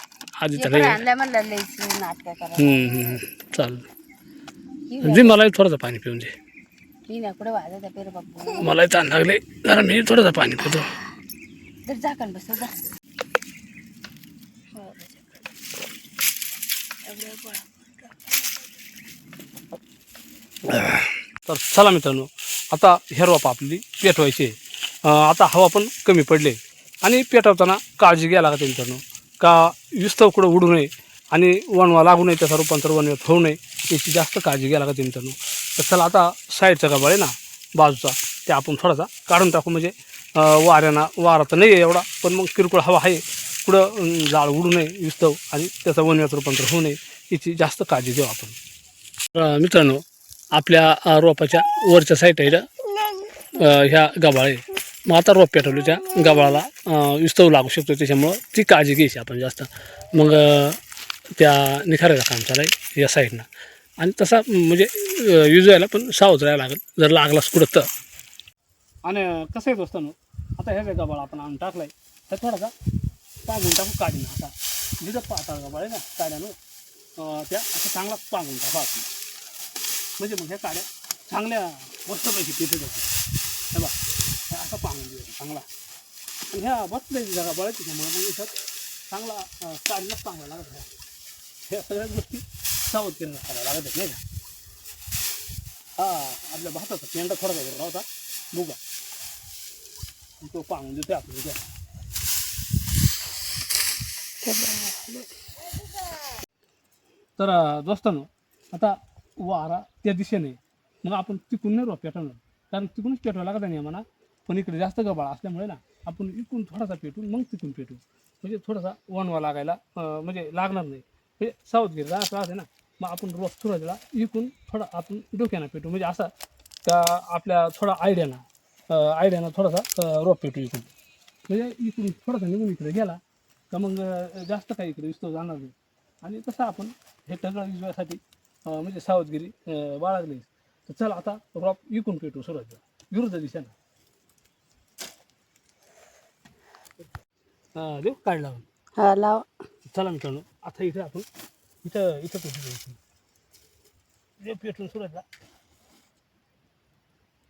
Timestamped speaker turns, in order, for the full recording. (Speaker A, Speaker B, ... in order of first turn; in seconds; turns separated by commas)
Speaker A: 0.4-1.0, Speaker B: 0.6-3.0, Speaker A: 2.6-3.9, Speaker B: 4.9-5.4, Speaker A: 5.0-6.3, Speaker B: 7.1-8.7, Speaker A: 8.5-10.9, Speaker B: 11.9-12.7, Speaker B: 14.7-15.2, Speaker B: 17.1-18.5, Speaker A: 20.7-48.6, Speaker A: 49.3-50.0, Speaker A: 50.5-52.7, Speaker A: 53.5-60.8, Speaker A: 61.4-63.5, Speaker A: 64.0-67.9, Speaker A: 69.0-72.7, Speaker A: 73.5-76.6, Speaker A: 77.2-79.1, Speaker A: 80.2-83.1, Speaker A: 84.5-85.7, Speaker A: 86.5-88.5, Speaker A: 89.1-90.9, Speaker A: 91.7-94.2, Speaker A: 96.0-98.8, Speaker A: 100.4-101.6, Speaker B: 104.4-105.3, Speaker A: 107.4-126.3, Speaker A: 126.9-130.9, Speaker A: 131.5-133.2, Speaker A: 133.7-143.7, Speaker A: 147.8-148.7, Speaker B: 149.0-149.5, Speaker A: 149.9-151.3, Speaker A: 151.8-153.0, Speaker A: 154.4-155.2